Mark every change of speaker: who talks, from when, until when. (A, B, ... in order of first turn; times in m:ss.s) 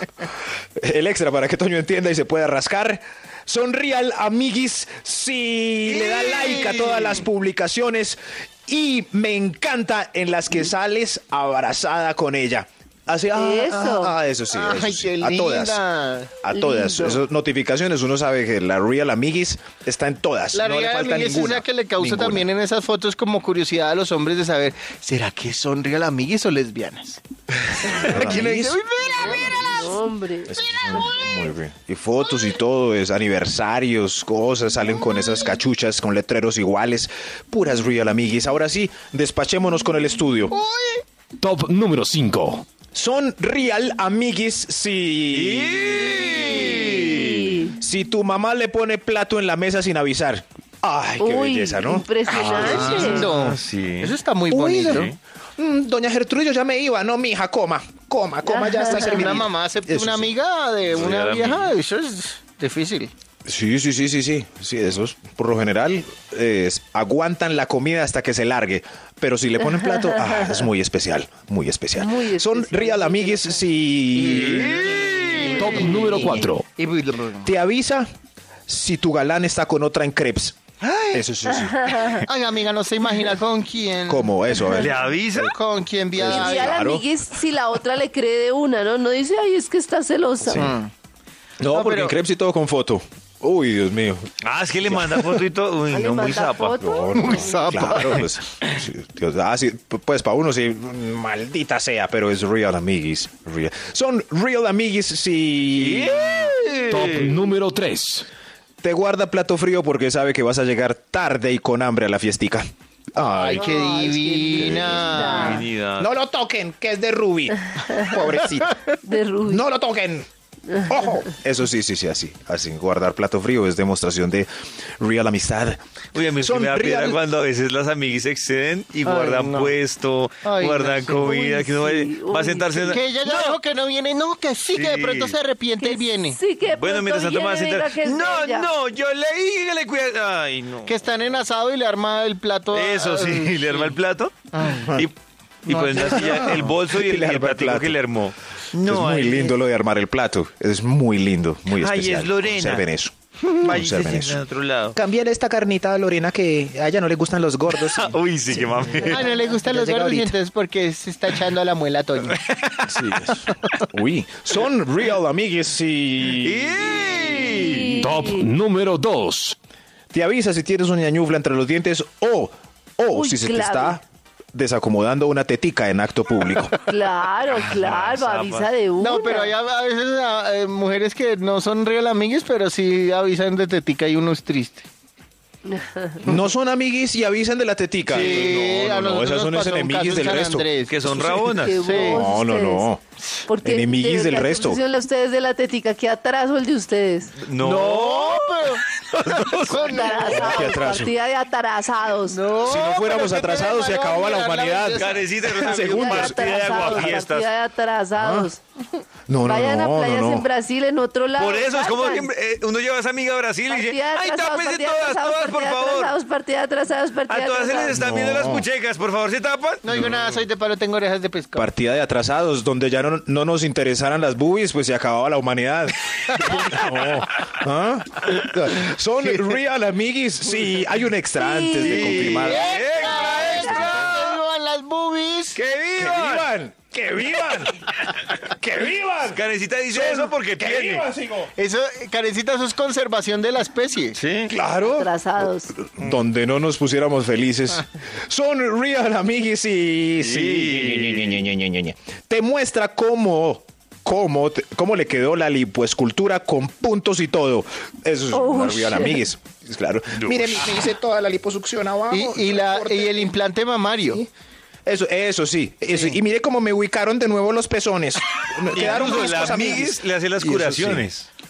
0:00.8-0:15.8 A
0:05.9-0:07.2 B
0:13.3-0:14.1 C
0:14.5-0:16.3 B
0:16.4-0:22.5 A
0:16.5-0:17.2 C
0:20.5-0:27.2 B
0:27.6-0:40.6 A
0:27.8-0:29.9 B
0:29.2-0:31.2 C
0:30.6-0:31.1 B
0:40.5-0:41.0 B
0:41.4-0:42.6 D
0:42.9-0:46.0 A
0:45.3-0:47.4 E
0:46.4-0:46.8 B
0:47.0-0:47.8 C
0:47.6-0:53.2 A
0:51.2-0:53.3 C
0:52.3-0:55.1 B
0:52.3-0:54.2 E
0:54.5-1:00.3 A
0:54.8-0:55.2 E
0:58.6-0:59.2 C
0:58.9-1:03.1 B
1:00.9-1:01.7 E
1:03.5-1:14.8 A
1:09.6-1:10.6 C
1:12.0-1:13.6 C
1:14.2-1:17.5 B
1:14.4-1:15.8 E
1:15.6-1:16.7 D
1:17.4-1:18.1 A
1:18.7-1:20.6 A
1:20.8-1:21.2 B
1:21.1-1:22.0 A
1:21.5-1:22.2 C
1:22.3-1:26.7 B
1:24.1-1:25.4 A
1:24.7-1:25.6 E
1:26.2-1:27.0 A
1:26.2-1:30.7 C
1:30.5-1:30.8 A
1:30.5-1:30.9 B
1:31.6-1:34.3 A
1:31.7-1:32.2 B
1:34.4-1:36.8 E
1:34.8-1:35.4 A
1:35.9-1:37.8 C
1:36.8-1:46.5 A
1:37.1-1:38.3 B
1:45.8-1:47.4 E
1:46.9-1:48.3 D
1:48.8-1:58.8 A
1:53.3-1:55.6 B
1:53.6-1:55.6 C
1:55.2-1:56.1 E
1:59.0-1:59.6 C
1:59.4-2:05.8 A
2:06.1-2:13.6 E
2:06.4-2:07.2 A
2:09.0-2:09.8 B
2:10.4-2:11.3 B
2:11.2-2:13.0 C
2:12.7-2:16.4 B
2:14.7-2:15.4 E
2:15.8-2:18.7 C
2:16.6-2:21.4 E
2:20.8-2:24.0 B
2:22.7-2:25.1 E
2:24.5-2:24.9 B
2:25.6-2:29.6 E
2:25.7-2:26.6 B
2:26.0-2:28.0 A
2:28.8-2:34.4 A
2:31.7-2:32.9 E
2:33.5-2:35.0 E
2:34.9-2:40.3 A
2:37.7-2:39.3 E
2:39.0-2:42.4 B
2:42.2-2:43.3 E
2:42.9-2:47.2 A
2:46.2-2:48.0 E
2:47.4-2:48.5 C
2:48.0-2:49.6 D
2:50.1-2:54.0 A
2:53.1-2:54.0 C
2:54.5-2:56.8 A
2:56.8-2:59.5 C
2:57.5-2:58.7 E
2:59.0-3:04.9 B
3:05.7-3:06.2 C
3:06.2-3:10.7 A
3:08.1-3:08.9 E
3:08.1-3:12.2 B
3:10.9-3:12.0 E
3:11.6-3:12.9 C
3:11.9-3:13.0 A
3:13.5-3:17.4 C
3:13.6-3:14.8 A
3:17.4-3:19.9 E
3:17.6-3:18.8 B
3:19.6-3:20.9 B
3:19.8-3:22.4 C
3:20.2-3:21.1 A
3:22.3-3:25.2 B
3:22.6-3:27.2 A
3:25.0-3:27.5 E
3:25.7-3:28.6 C
3:28.2-3:28.5 A
3:29.3-3:30.5 A
3:29.4-3:32.3 C
3:31.4-3:36.2 E
3:33.7-3:38.0 C
3:37.3-3:40.4 E
3:37.9-3:38.7 A
3:39.8-3:41.7 B
3:41.6-3:53.9 A
3:51.4-3:52.6 C
3:51.8-3:54.4 E
3:52.2-3:55.6 B
3:53.4-3:53.8 C
3:55.6-3:56.5 E
3:56.0-4:01.5 A
3:58.0-3:58.3 E
3:59.3-4:01.1 E
4:01.6-4:04.2 B
4:04.2-4:04.5 E
4:04.5-4:23.4 A
4:04.8-4:05.7 C
4:10.2-4:11.4 E
4:18.3-4:19.2 C
4:20.2-4:20.7 E
4:22.1-4:24.2 B
4:24.9-4:31.1 A
4:25.9-4:26.2 B
4:28.7-4:31.3 E